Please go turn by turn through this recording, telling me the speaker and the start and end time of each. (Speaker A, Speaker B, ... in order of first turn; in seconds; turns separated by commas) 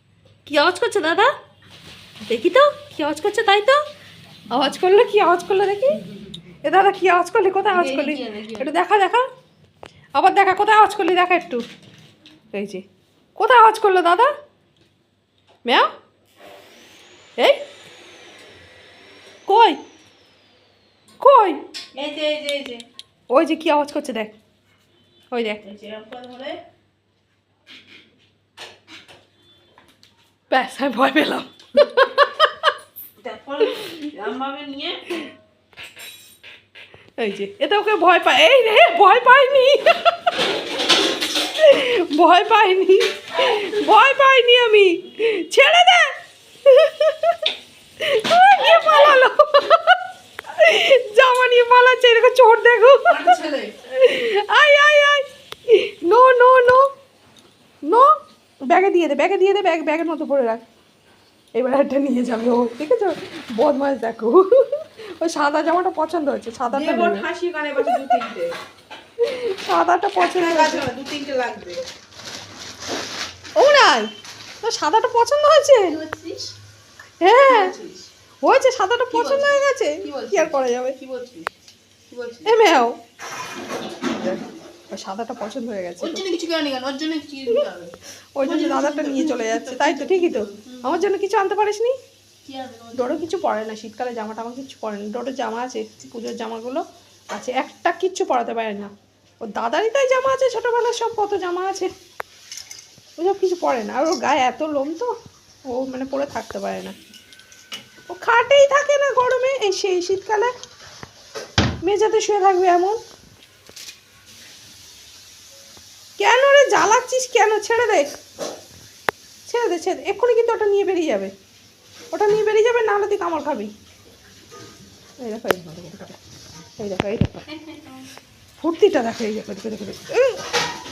Speaker A: 0.5-1.3, Speaker B: 2.3-2.5, Speaker A: 2.3-3.8, Speaker A: 4.5-6.0, Speaker A: 6.6-9.2, Speaker B: 7.7-8.7, Speaker A: 10.2-11.6, Speaker A: 12.5-12.8, Speaker A: 13.3-14.3, Speaker A: 19.5-19.8, Speaker A: 21.2-21.6, Speaker B: 21.9-22.8, Speaker A: 23.3-24.3, Speaker A: 25.3-25.6, Speaker B: 25.6-26.6, Speaker A: 30.5-32.7, Speaker B: 33.2-35.2, Speaker A: 33.6-34.1, Speaker A: 37.2-40.5, Speaker A: 41.4-46.1, Speaker A: 46.6-56.8, Speaker B: 48.6-49.2, Speaker B: 53.0-53.8, Speaker A: 57.8-58.1, Speaker A: 58.7-60.6, Speaker A: 61.5-68.2, Speaker B: 66.7-68.5, Speaker A: 69.2-70.8, Speaker B: 70.2-71.8, Speaker A: 73.5-74.1, Speaker A: 74.6-76.0, Speaker B: 75.8-76.5, Speaker A: 77.2-77.7, Speaker B: 77.5-78.1, Speaker A: 78.4-81.0, Speaker B: 79.1-81.5, Speaker B: 82.1-82.7, Speaker A: 82.5-83.0, Speaker A: 84.0-86.2, Speaker B: 86.0-91.1, Speaker A: 88.4-91.9, Speaker B: 92.5-93.3, Speaker A: 92.9-98.9, Speaker A: 99.4-101.9, Speaker A: 103.2-105.1, Speaker A: 105.7-106.9, Speaker A: 108.1-110.5, Speaker A: 111.8-113.0, Speaker A: 116.2-118.0, Speaker A: 119.5-121.3, Speaker A: 122.1-123.7, Speaker A: 125.2-126.2, Speaker A: 126.8-127.5, Speaker B: 127.5-128.0, Speaker A: 128.6-130.5